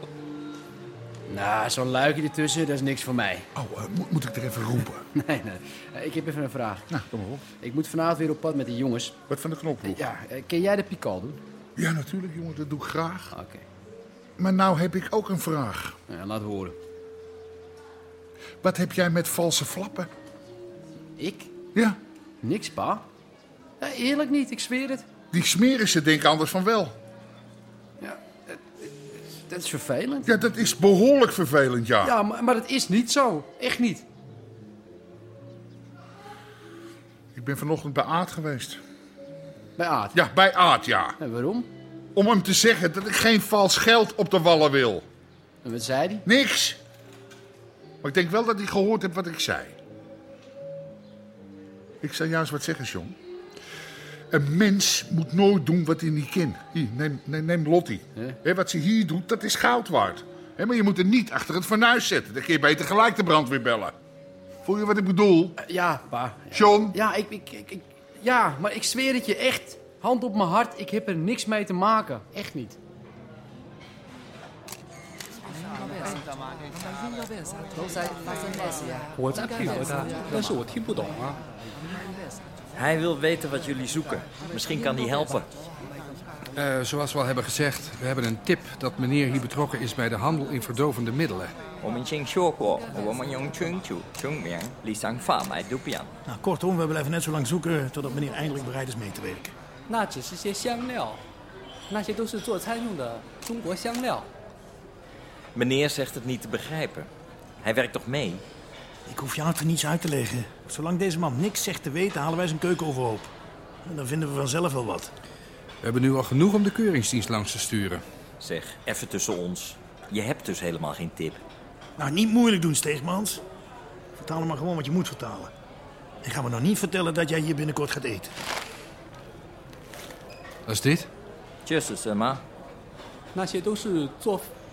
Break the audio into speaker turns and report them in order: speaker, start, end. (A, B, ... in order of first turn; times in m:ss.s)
0:01.3-0:03.5 A
0:03.6-0:05.0 B
0:05.1-0:06.9 A
0:06.9-0:07.5 B
0:07.5-0:09.2 A
0:09.3-0:10.0 B
0:09.8-0:11.4 A
0:11.8-0:13.3 B
0:13.3-0:13.6 A
0:14.4-0:16.0 B
0:16.1-0:16.8 A
0:18.6-0:20.1 B
0:21.2-0:21.5 A
0:22.4-0:23.0 A
0:23.8-0:25.0 A
0:25.3-0:27.0 B
0:28.0-0:30.3 A
0:30.2-0:32.1 B
0:32.0-0:34.0 A
0:37.3-0:38.8 B
0:39.8-0:40.2 A
0:40.1-0:41.2 B
0:41.2-0:41.7 A
0:42.1-0:45.0 B
0:45.6-0:46.2 A
0:46.2-0:46.8 B
0:48.0-0:49.7 B
0:52.0-0:53.2 B
0:54.3-1:03.9 B
1:04.6-1:05.6 B
1:05.6-1:12.8 A
1:06.5-1:07.0 B
1:19.2-1:20.2 C
1:19.6-1:21.4 D
1:22.8-1:25.5 E
1:26.6-1:31.5 C
1:31.8-1:36.1 E
1:36.3-1:39.5 F
1:39.9-1:41.2 D
1:41.9-1:44.3 D
1:45.5-1:47.1 E
1:47.6-1:48.4 E
1:49.1-1:53.3 F
1:53.8-1:55.1 F
1:55.8-1:58.0 C
1:58.4-2:01.4 E
2:02.0-2:03.4 F
2:04.2-2:05.5 F
2:06.2-2:08.3 F
2:10.7-2:11.1 C
2:11.6-2:12.4 E
2:13.3-2:14.4 D